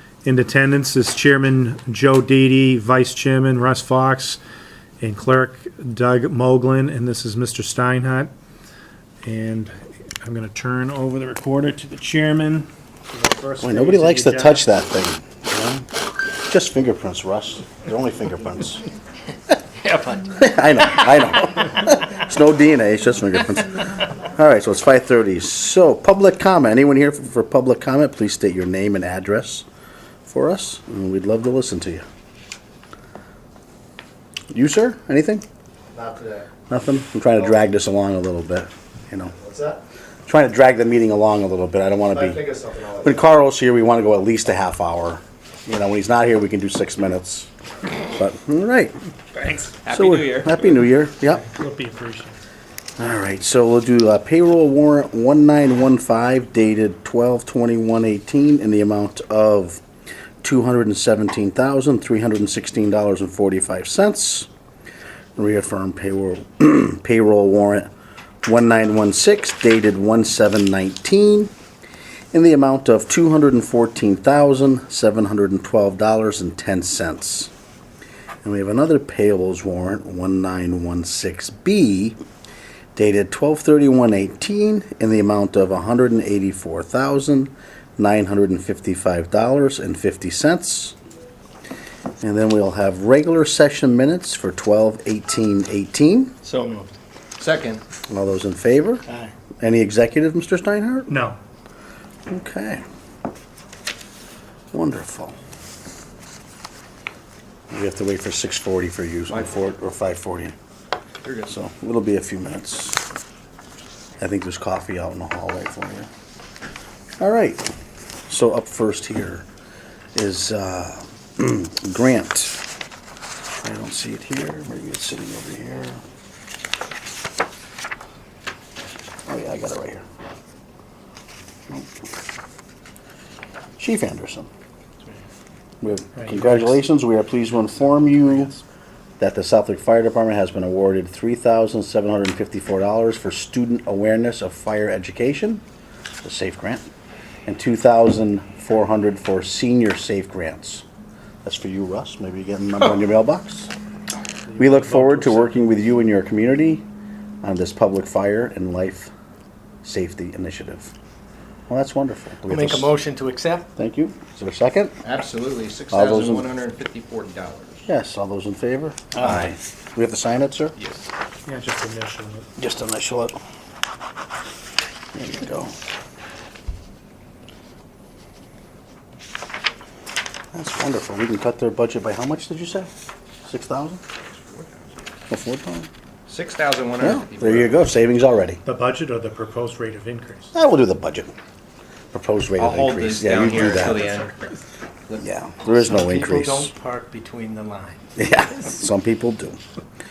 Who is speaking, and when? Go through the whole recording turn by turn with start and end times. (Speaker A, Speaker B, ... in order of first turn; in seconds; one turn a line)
Speaker A: 0.2-4.4
Speaker A: 5.0-8.3
Speaker A: 9.2-14.7
Speaker B: 13.6-15.9
Speaker B: 16.4-18.8
Speaker C: 19.8-20.2
Speaker B: 20.3-29.6
Speaker B: 30.2-32.0
Speaker B: 34.5-35.4
Speaker D: 35.9-36.5
Speaker B: 36.7-39.3
Speaker D: 39.4-39.8
Speaker B: 40.2-47.5
Speaker D: 42.3-43.0
Speaker B: 48.0-48.9
Speaker A: 49.4-49.7
Speaker D: 49.8-50.8
Speaker B: 49.9-51.5
Speaker A: 51.2-52.4
Speaker B: 53.0-59.8
Speaker B: 60.4-64.5
Speaker B: 65.4-67.9
Speaker B: 68.5-71.5
Speaker B: 72.3-77.5
Speaker B: 78.4-82.2
Speaker B: 83.0-91.0
Speaker B: 92.2-96.3
Speaker C: 96.4-97.0
Speaker D: 97.4-97.8
Speaker B: 98.1-99.0
Speaker C: 99.1-99.3
Speaker B: 99.6-101.2
Speaker A: 101.1-101.4
Speaker B: 102.3-102.8
Speaker B: 104.7-105.4
Speaker B: 107.7-110.5
Speaker D: 111.2-111.5
Speaker B: 111.5-113.0
Speaker B: 114.2-116.1
Speaker B: 117.2-117.7
Speaker B: 118.3-119.4
Speaker B: 120.1-122.6
Speaker B: 123.6-126.0
Speaker B: 129.3-130.0
Speaker B: 133.8-134.5
Speaker B: 135.8-138.5
Speaker A: 136.1-136.8
Speaker B: 139.2-145.6
Speaker B: 146.2-146.8
Speaker B: 147.4-150.8
Speaker B: 151.4-153.7
Speaker A: 154.4-155.7
Speaker B: 154.6-156.8
Speaker B: 157.4-159.1
Speaker B: 159.8-160.9
Speaker B: 161.7-162.9
Speaker C: 162.5-163.7
Speaker B: 163.8-164.9
Speaker D: 165.0-167.8
Speaker B: 165.9-166.5
Speaker B: 167.9-170.7
Speaker C: 169.1-169.5
Speaker D: 169.2-169.6
Speaker A: 171.4-172.5
Speaker B: 172.6-173.4
Speaker B: 175.1-175.7
Speaker B: 180.5-182.9
Speaker B: 183.4-184.0
Speaker D: 184.3-184.8
Speaker B: 185.3-185.9
Speaker D: 186.3-187.8
Speaker B: 187.0-188.6
Speaker A: 188.6-190.5
Speaker B: 190.5-191.3
Speaker B: 192.1-194.1
Speaker D: 192.6-195.2
Speaker B: 195.2-196.7
Speaker C: 195.7-198.1
Speaker B: 198.2-199.6